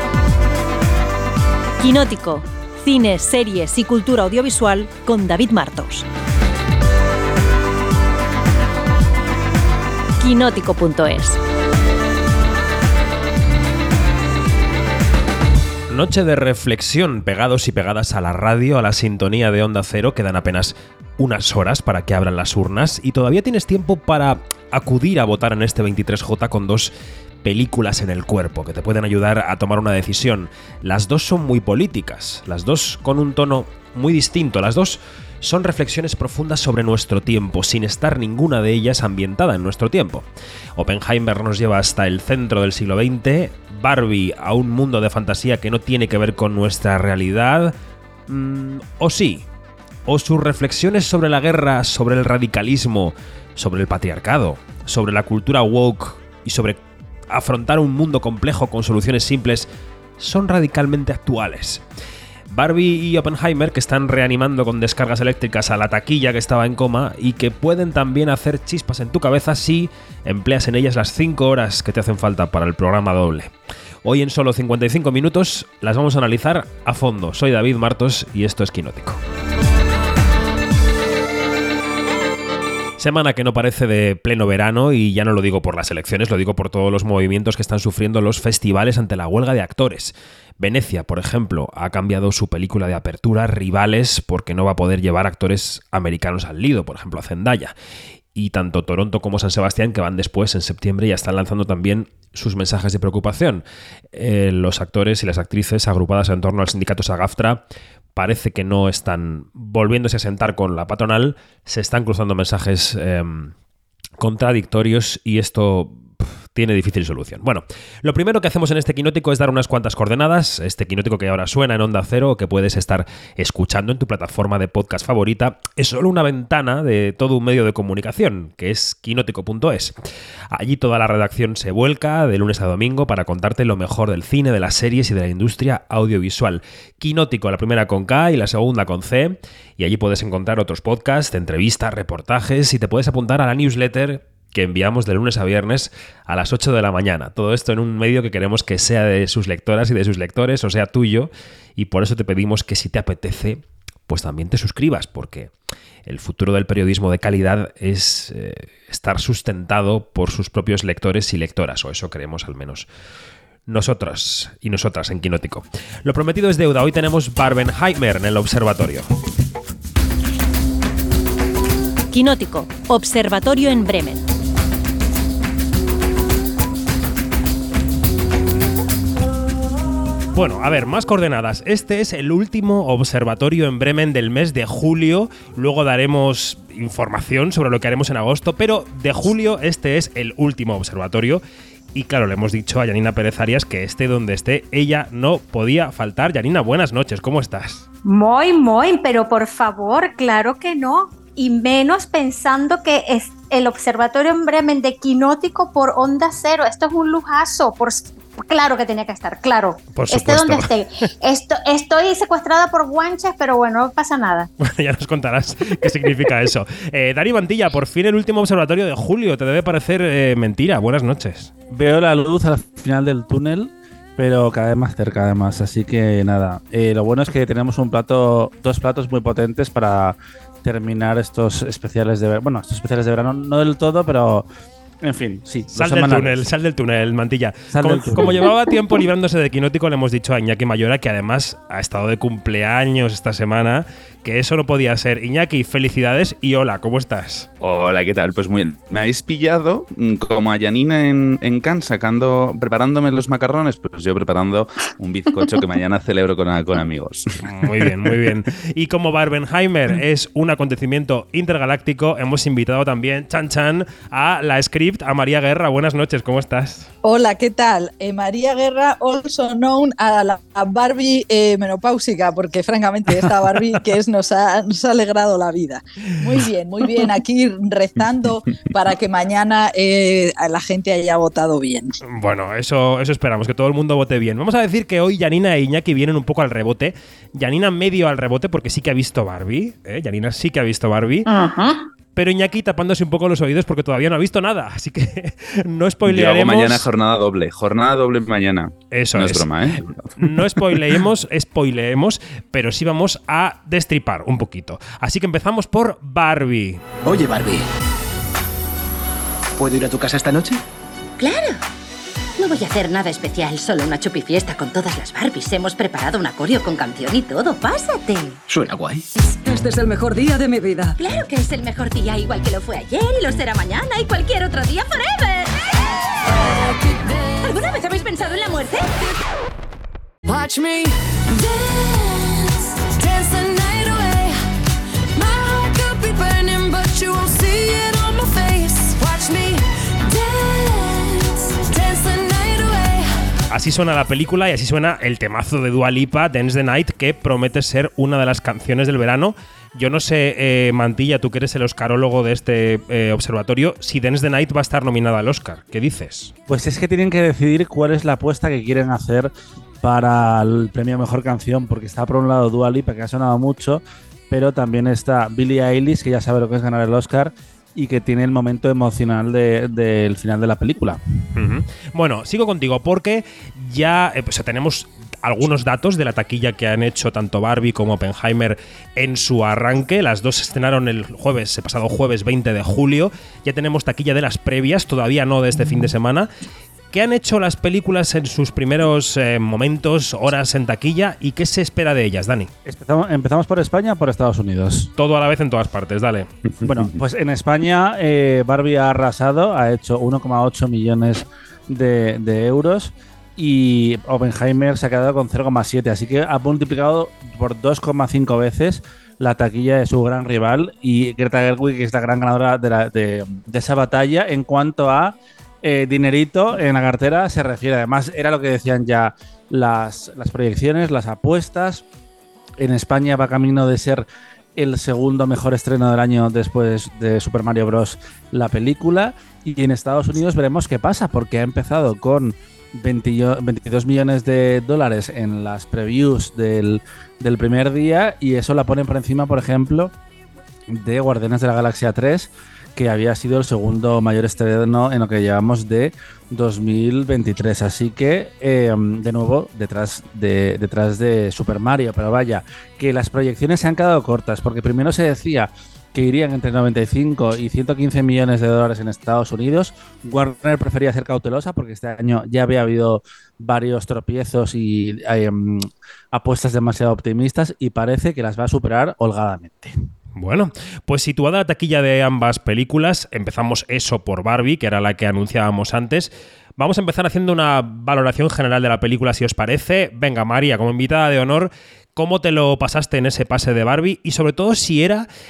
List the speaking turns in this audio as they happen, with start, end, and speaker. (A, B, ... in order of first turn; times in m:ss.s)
0:01.8-0:06.1 A
0:10.2-0:11.4 A
0:15.9-0:26.9 B
0:27.4-0:47.8 B
0:48.3-0:49.4 B
0:50.1-1:01.8 B
1:02.5-1:13.5 B
1:14.0-1:19.2 B
1:23.0-1:37.7 B
1:38.4-1:47.6 B
1:48.2-1:53.5 B
1:54.2-2:09.9 B
2:10.5-2:35.5 B
2:36.1-2:42.9 B
2:43.7-2:49.1 B
2:52.1-2:54.2 A
3:00.3-3:11.4 B
3:11.9-3:17.8 B
3:18.0-3:34.5 C
3:29.9-3:30.7 B
3:34.6-3:41.5 B
3:41.7-3:54.5 D
3:55.0-3:56.4 D
3:55.7-4:07.5 B
3:57.7-3:58.5 D
4:07.6-4:18.1 E
4:17.4-4:26.9 B
4:27.0-4:42.0 F
4:42.1-4:51.3 B
4:51.3-4:51.9 C
4:52.2-4:56.9 B
4:56.0-5:00.6 E
4:58.9-4:59.5 B
5:00.2-5:06.8 B
5:07.0-5:07.7 G
5:09.6-5:10.6 G
5:11.2-5:11.6 H
5:12.4-5:18.4 H
5:18.5-5:19.0 G
5:19.2-5:25.6 H
5:26.3-5:27.6 I
5:27.4-5:29.0 H
5:30.2-5:34.4 I
5:35.2-5:43.1 I
5:43.5-5:56.3 B
5:56.5-6:11.0 D
6:11.4-6:26.3 B
6:26.9-6:32.5 B
6:32.6-6:34.9 D
6:35.0-6:36.3 B
6:36.5-6:36.9 E
6:36.6-7:01.8 D
7:02.6-7:19.9 D
7:20.7-7:49.7 D
7:50.2-8:05.1 B